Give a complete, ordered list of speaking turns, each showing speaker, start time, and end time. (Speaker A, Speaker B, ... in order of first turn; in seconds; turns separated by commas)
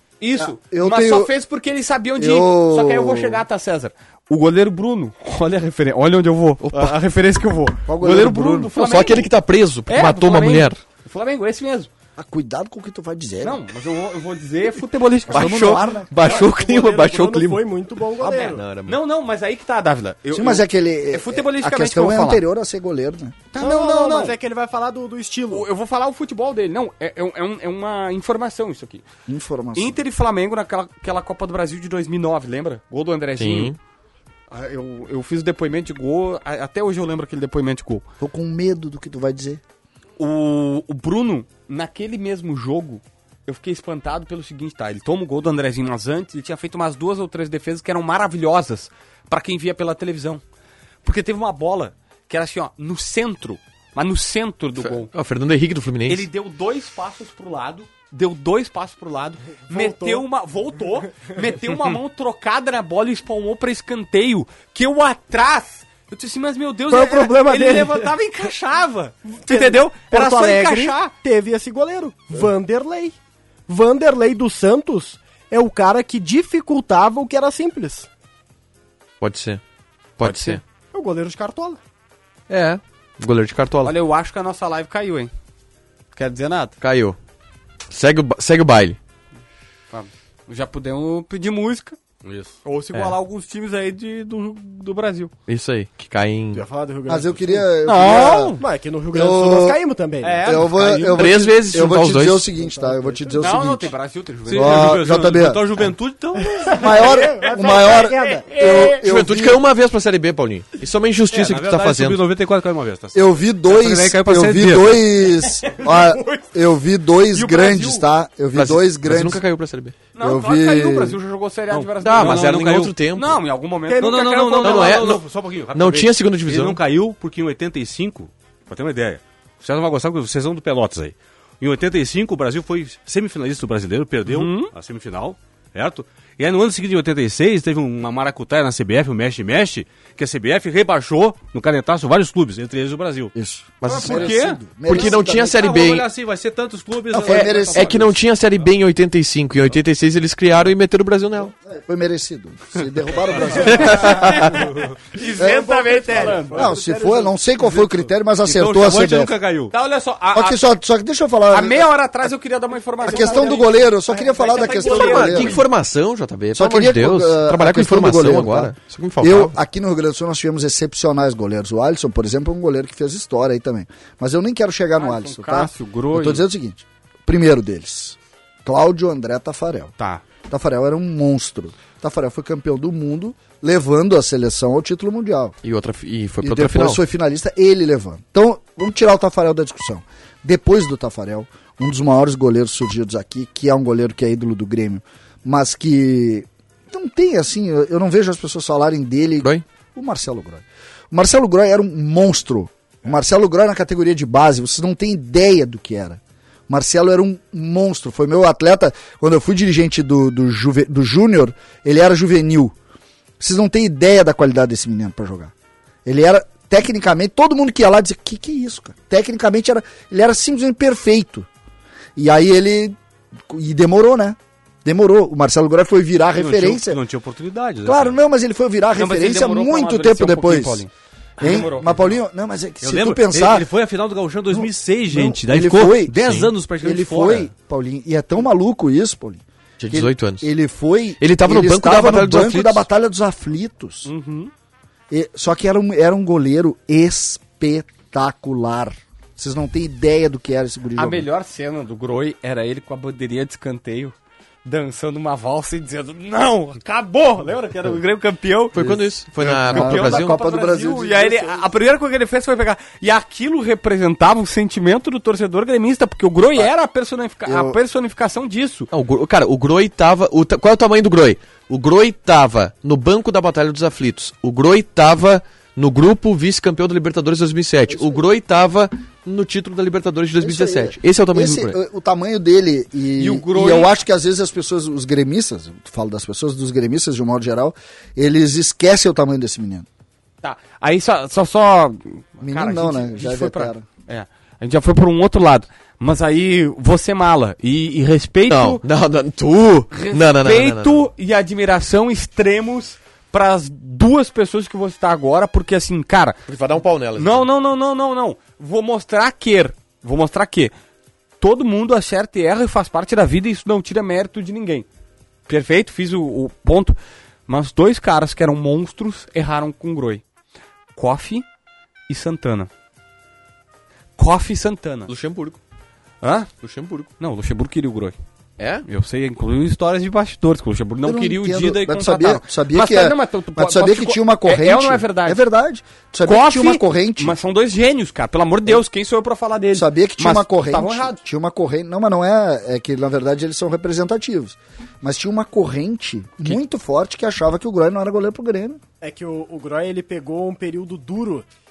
Speaker A: 0.2-9.3, Speaker B: 0.3-1.3, Speaker B: 2.1-3.4, Speaker C: 6.6-7.0, Speaker B: 7.8-8.7, Speaker C: 8.7-10.8, Speaker A: 9.9-11.9, Speaker B: 12.2-13.6, Speaker A: 13.4-15.8, Speaker B: 15.3-16.1, Speaker C: 15.3-17.6, Speaker D: 16.2-18.6, Speaker B: 18.2-18.5, Speaker A: 18.3-22.4, Speaker C: 18.4-19.0, Speaker B: 20.3-23.4, Speaker A: 23.5-24.4, Speaker D: 23.5-25.7, Speaker A: 25.5-29.0, Speaker B: 29.3-29.9, Speaker A: 29.7-33.7, Speaker C: 33.4-33.8, Speaker A: 34.5-38.0, Speaker B: 38.2-39.6, Speaker A: 40.2-50.4, Speaker A: 51.0-55.1, Speaker C: 54.8-56.3, Speaker A: 56.0-71.0, Speaker D: 59.7-60.3, Speaker D: 61.4-61.8, Speaker D: 66.9-68.1, Speaker D: 69.4-73.2, Speaker D: 73.7-78.1, Speaker C: 79.2-79.6, Speaker C: 80.2-80.6, Speaker A: 80.2-80.6, Speaker D: 80.9-81.8, Speaker C: 82.5-83.9, Speaker A: 83.8-85.3, Speaker A: 86.1-86.7, Speaker C: 86.8-87.2, Speaker C: 87.9-89.0, Speaker A: 89.9-92.0, Speaker E: 92.2-92.5, Speaker A: 92.6-95.3, Speaker C: 95.5-96.7, Speaker D: 96.5-97.7, Speaker B: 97.1-98.5, Speaker A: 97.8-98.6, Speaker D: 98.6-100.5, Speaker B: 99.1-99.8, Speaker A: 100.2-101.3, Speaker B: 100.4-103.9, Speaker C: 101.1-102.5, Speaker D: 102.5-103.4, Speaker A: 103.4-104.9, Speaker E: 104.5-106.6, Speaker B: 104.5-105.8, Speaker D: 106.4-108.8, Speaker B: 106.8-109.6, Speaker A: 107.0-109.0, Speaker C: 109.0-112.2, Speaker E: 111.3-115.0, Speaker B: 113.1-119.4, Speaker A: 115.8-116.4, Speaker A: 117.3-118.1, Speaker C: 118.5-120.0, Speaker A: 120.1-125.0, Speaker B: 120.2-121.2, Speaker E: 121.7-122.9, Speaker C: 122.0-123.4, Speaker D: 123.9-125.0, Speaker E: 124.0-143.3, Speaker C: 124.6-126.8, Speaker A: 134.3-134.7, Speaker B: 143.3-145.6, Speaker C: 143.8-144.3, Speaker A: 143.8-144.6, Speaker C: 144.9-146.1, Speaker E: 144.9-148.1, Speaker B: 147.1-148.2, Speaker C: 147.2-151.5, Speaker B: 151.6-154.4, Speaker A: 153.6-156.7, Speaker C: 153.7-154.5, Speaker D: 155.1-157.3, Speaker B: 155.4-155.7, Speaker B: 156.3-159.3, Speaker E: 158.4-159.7, Speaker A: 159.7-160.6, Speaker B: 160.3-161.9, Speaker A: 161.5-165.6, Speaker D: 163.0-164.8, Speaker B: 163.0-165.6, Speaker C: 164.8-169.5, Speaker B: 166.5-179.9, Speaker A: 174.9-176.5, Speaker B: 180.5-185.6, Speaker C: 185.6-187.0, Speaker B: 186.4-212.7, Speaker B: 213.4-215.5, Speaker B: 216.0-221.5, Speaker B: 222.2-227.0, Speaker E: 226.3-228.2, Speaker B: 227.8-230.8, Speaker A: 228.9-232.2, Speaker B: 231.4-233.7, Speaker E: 232.8-237.5, Speaker B: 234.5-244.1, Speaker C: 239.8-240.5, Speaker C: 241.2-242.8, Speaker A: 244.0-244.5, Speaker B: 245.1-251.3, Speaker A: 251.0-258.8, Speaker C: 258.7-260.4, Speaker B: 258.8-261.7, Speaker A: 259.6-268.9, Speaker B: 267.4-267.8, Speaker C: 268.9-281.8, Speaker B: 277.9-278.2, Speaker B: 280.4-289.9, Speaker A: 283.1-283.9, Speaker A: 290.4-298.8, Speaker B: 292.4-293.8, Speaker C: 298.5-301.1, Speaker A: 299.9-306.4, Speaker C: 306.5-307.4, Speaker A: 307.1-310.7, Speaker A: 311.4-314.9, Speaker A: 315.5-316.9, Speaker A: 317.5-320.2, Speaker A: 320.9-321.4, Speaker A: 322.1-322.7, Speaker A: 324.2-325.1, Speaker C: 325.1-325.6, Speaker A: 326.2-326.5, Speaker C: 326.6-327.1, Speaker A: 327.2-328.1, Speaker C: 328.6-328.8, Speaker A: 328.9-335.4, Speaker B: 331.0-337.4, Speaker A: 336.2-341.2, Speaker B: 339.7-348.8, Speaker D: 349.0-351.5